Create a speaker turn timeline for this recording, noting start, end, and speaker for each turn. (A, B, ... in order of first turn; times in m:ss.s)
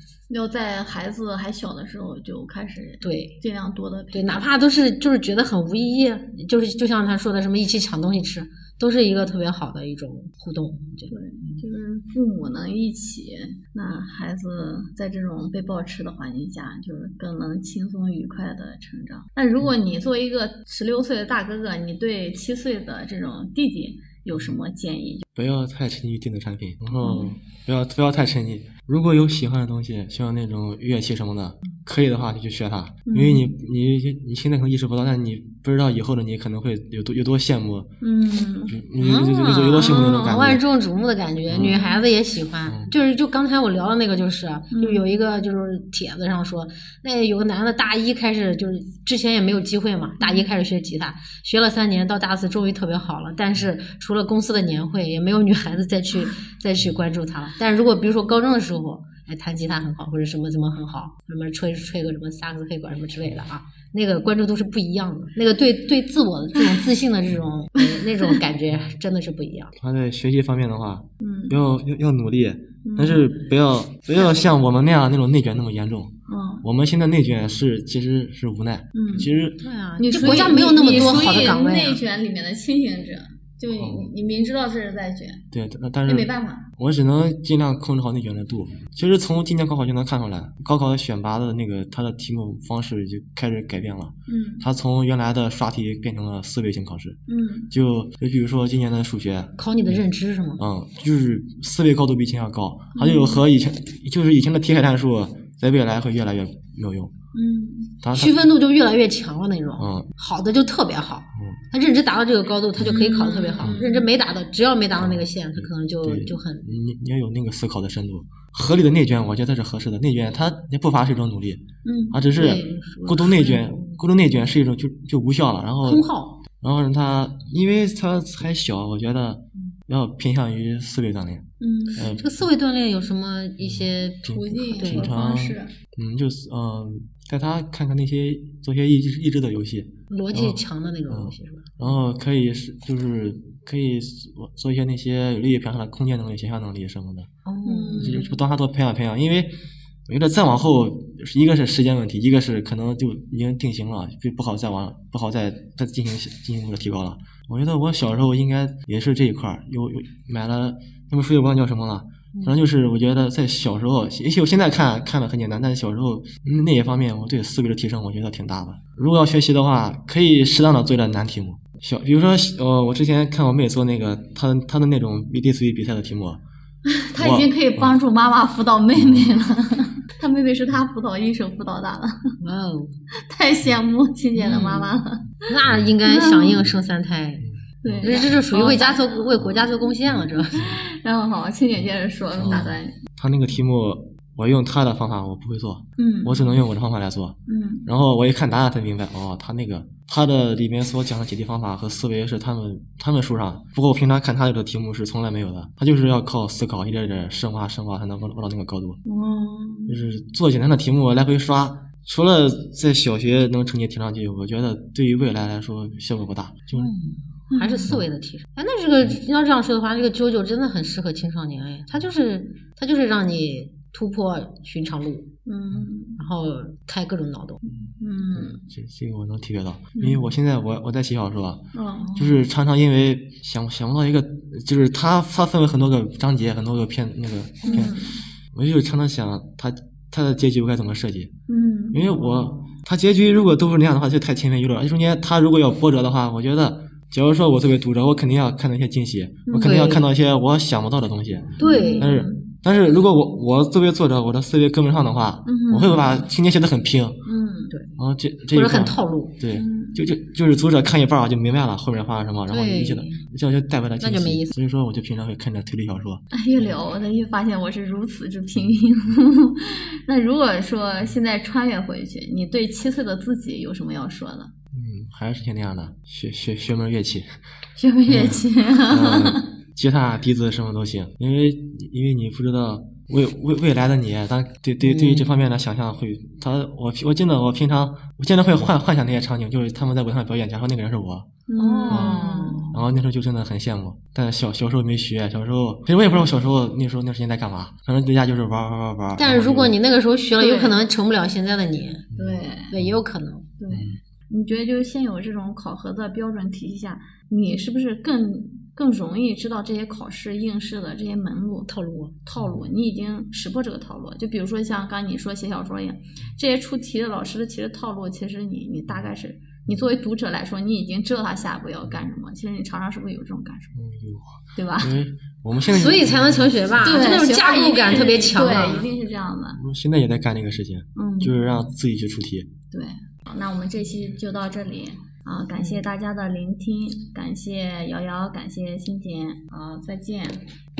0:00.3-0:04.4 A
0:03.0-0:03.4 B
0:04.1-0:11.6 B
0:11.1-0:25.2 A
0:25.3-0:37.9 C
0:27.0-0:27.3 A
0:33.0-0:33.5 A
0:38.0-0:38.8 A
0:38.7-0:40.6 C
0:39.0-1:09.7 B
0:41.5-0:41.8 C
0:41.5-0:42.0 A
0:42.6-0:42.9 C
0:44.7-0:45.0 A
0:50.2-0:50.6 A
1:07.8-1:08.4 A
1:09.8-1:21.5 C
1:11.2-1:11.6 A
1:12.8-1:13.4 A
1:14.2-1:14.5 B
1:16.3-1:16.6 A
1:18.9-1:19.3 A
1:19.6-1:22.0 B
1:20.0-1:25.4 A
1:23.7-1:24.1 C
1:25.5-1:37.2 C
1:26.0-1:26.7 A
1:34.3-1:34.6 A
1:37.3-1:37.7 A
1:37.7-1:40.0 C
1:39.6-1:40.6 B
1:40.6-1:47.1 C
1:42.9-1:43.4 A
1:47.3-1:48.0 A
1:48.0-1:48.4 C
1:48.1-1:56.7 B
1:49.8-1:50.1 C
1:52.8-1:53.0 C
1:52.8-1:54.1 A
1:53.6-1:53.8 C
1:55.0-2:06.0 C
2:01.8-2:02.2 A
2:02.3-2:04.0 B
2:05.8-2:06.4 B
2:06.6-2:12.3 C
2:11.6-2:12.0 A
2:12.1-2:15.2 B
2:13.6-2:27.3 C
2:14.2-2:15.7 A
2:20.1-2:22.0 B
2:27.4-2:28.2 B
2:27.6-2:28.4 A
2:28.0-2:29.5 C
2:30.1-2:56.4 C
2:42.3-2:42.6 B
2:56.8-3:02.3 A
2:57.2-2:58.0 C
2:58.9-2:59.3 C
3:02.4-3:02.9 B
3:03.2-3:05.4 A
3:04.4-3:04.9 B
3:05.5-3:07.4 B
3:05.6-3:05.9 C
3:06.0-3:06.6 A
3:06.5-3:06.8 C
3:07.4-3:08.4 C
3:07.8-3:09.4 A
3:08.0-3:10.7 B
3:10.0-3:10.8 C
3:10.5-3:13.0 A
3:12.4-3:29.0 C
3:16.0-3:16.6 A
3:17.5-3:17.9 A
3:29.0-3:30.0 A
3:29.9-3:36.9 C
3:36.7-3:45.3 B
3:37.5-3:37.9 A
3:45.4-3:46.2 A
3:46.2-3:47.6 B
3:47.7-4:01.3 C
3:48.0-3:48.6 A
3:49.9-3:50.3 A
3:51.7-3:52.4 A
3:57.6-3:57.9 B
3:57.6-3:58.2 A
4:01.5-4:02.1 A
4:01.9-4:17.2 C
4:02.1-4:02.7 B
4:09.5-4:09.8 A
4:09.6-4:10.1 B
4:11.6-4:12.2 B
4:11.6-4:12.5 A
4:15.4-4:16.3 A
4:17.2-4:17.7 A
4:18.0-4:26.8 C
4:18.5-4:19.4 B
4:19.5-4:20.0 A
4:22.5-4:23.2 B
4:24.0-4:24.5 B
4:26.3-4:34.5 A
4:28.6-4:28.8 C
4:34.7-4:37.4 C
4:37.8-4:39.4 A
4:38.1-4:51.3 C
4:44.8-4:45.3 B
4:51.5-4:52.6 A
4:51.6-4:52.8 B
4:51.9-4:59.8 C
4:59.2-5:02.1 B
5:00.4-5:00.8 A
5:02.1-5:03.0 C
5:02.1-5:02.8 A
5:02.7-5:03.5 B
5:03.6-5:11.7 A
5:03.7-5:04.0 C
5:11.7-5:12.2 B
5:12.2-5:23.7 A
5:12.4-5:12.7 C
5:23.8-5:27.0 C
5:24.5-5:24.9 A
5:25.7-5:28.9 B
5:26.8-5:29.6 A
5:29.5-5:32.5 C
5:31.0-5:31.5 A
5:32.7-5:40.4 A